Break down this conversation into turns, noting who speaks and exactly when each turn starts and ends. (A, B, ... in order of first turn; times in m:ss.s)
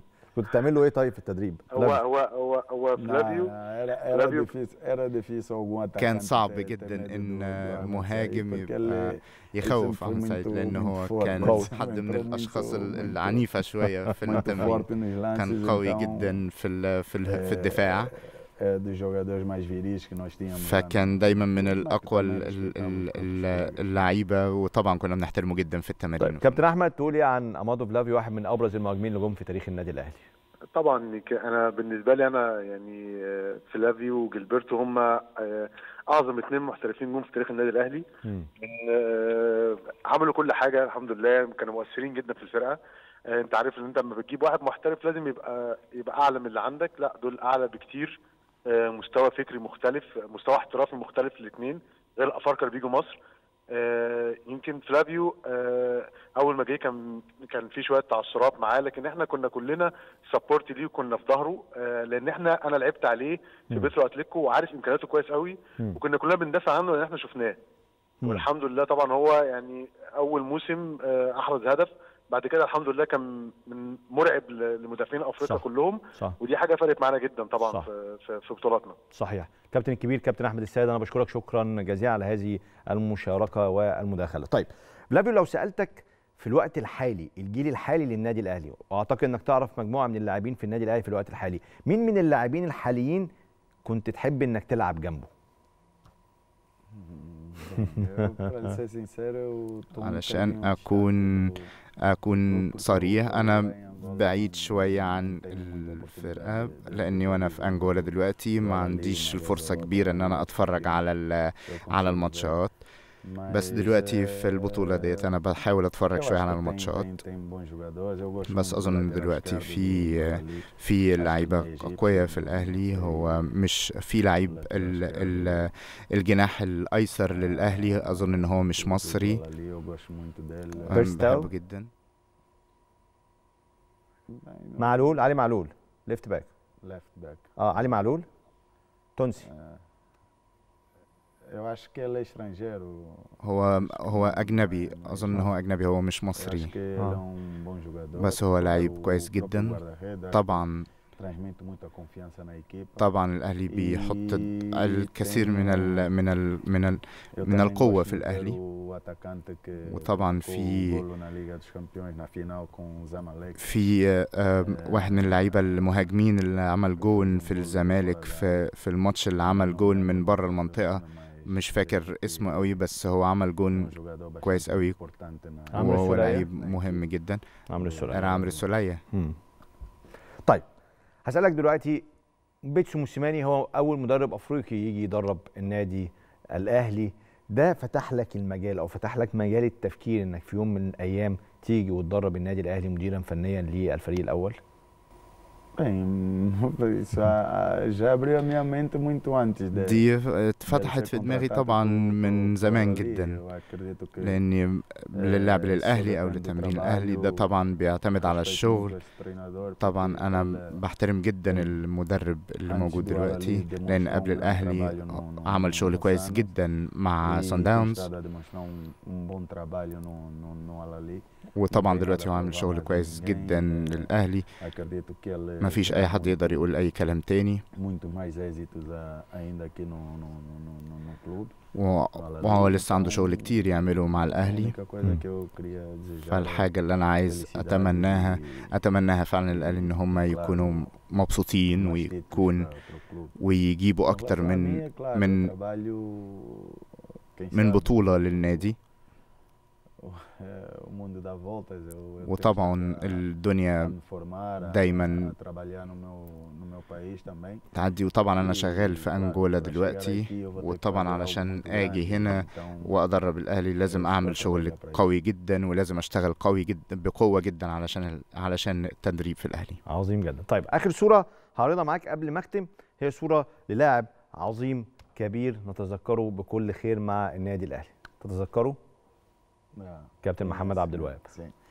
0:00.3-0:02.0 A
0:01.7-0:03.5 B
0:03.0-0:13.5 C
0:04.1-0:04.5 B
0:06.0-0:18.1 D
0:11.4-0:11.7 A
0:14.1-0:16.4 C
0:17.3-0:23.8 C
0:20.5-0:26.6 D
0:26.2-0:30.2 A
0:30.7-0:38.0 B
0:38.6-0:42.8 B
0:43.3-0:48.2 B
0:48.7-0:53.2 B
0:53.7-1:07.6 B
1:08.2-1:08.5 A
1:08.2-1:19.0 B
1:15.4-1:16.4 A
1:17.6-1:17.9 A
1:19.1-1:33.3 A
1:33.8-1:35.3 A
1:36.9-1:41.7 C
1:40.0-1:52.7 D
1:42.4-1:51.0 C
1:51.7-1:52.5 C
1:53.2-1:55.3 C
1:53.5-1:57.1 D
1:56.1-2:03.5 C
1:58.5-2:09.4 D
2:04.4-2:05.7 C
2:07.3-2:11.1 C
2:10.8-2:11.9 D
2:10.9-2:11.5 A
2:14.3-2:15.2 C
2:14.8-2:16.5 A
2:16.8-2:17.5 C
2:17.6-2:18.3 A
2:19.2-2:19.5 A
2:19.4-2:19.8 C
2:21.5-2:25.5 C
2:23.4-2:26.7 D
2:26.4-2:33.1 C
2:28.2-2:29.8 D
2:30.3-2:30.8 D
2:33.0-2:38.6 D
2:33.7-2:36.1 C
2:37.3-2:43.8 C
2:39.9-2:41.0 D
2:43.6-2:55.0 D
2:44.6-2:45.9 C
2:47.0-2:48.5 C
2:49.4-2:52.7 C
2:53.7-2:57.0 C
2:55.7-2:57.4 D
2:55.7-2:56.4 A
2:57.7-2:58.6 A
2:57.8-2:58.6 C
2:58.1-2:59.0 D
2:59.1-2:59.4 A
3:01.2-3:02.0 A
3:02.6-3:14.6 A
3:15.7-3:20.0 C
3:19.7-3:23.4 D
3:20.7-3:24.4 C
3:24.2-3:28.9 D
3:25.1-3:27.4 C
3:28.2-3:30.7 C
3:29.8-3:38.1 D
3:31.5-3:31.7 C
3:32.7-3:36.5 C
3:37.2-3:44.1 C
3:41.5-3:44.5 D
3:44.6-3:46.5 C
3:45.6-3:47.6 D
3:47.7-3:51.5 C
3:51.7-3:54.8 D
3:52.1-3:56.7 C
3:56.3-4:02.7 D
3:57.2-3:58.7 C
3:59.5-4:00.9 C
4:01.7-4:03.4 C
4:03.4-4:05.5 D
4:04.1-4:08.7 C
4:07.5-4:08.8 D
4:10.0-4:13.2 C
4:12.2-4:13.9 D
4:13.8-4:17.6 C
4:14.6-4:15.3 D
4:17.7-4:29.8 D
4:18.4-4:22.9 C
4:23.9-4:25.0 C
4:29.9-4:38.8 A
4:39.7-4:41.5 C
4:40.2-4:41.2 A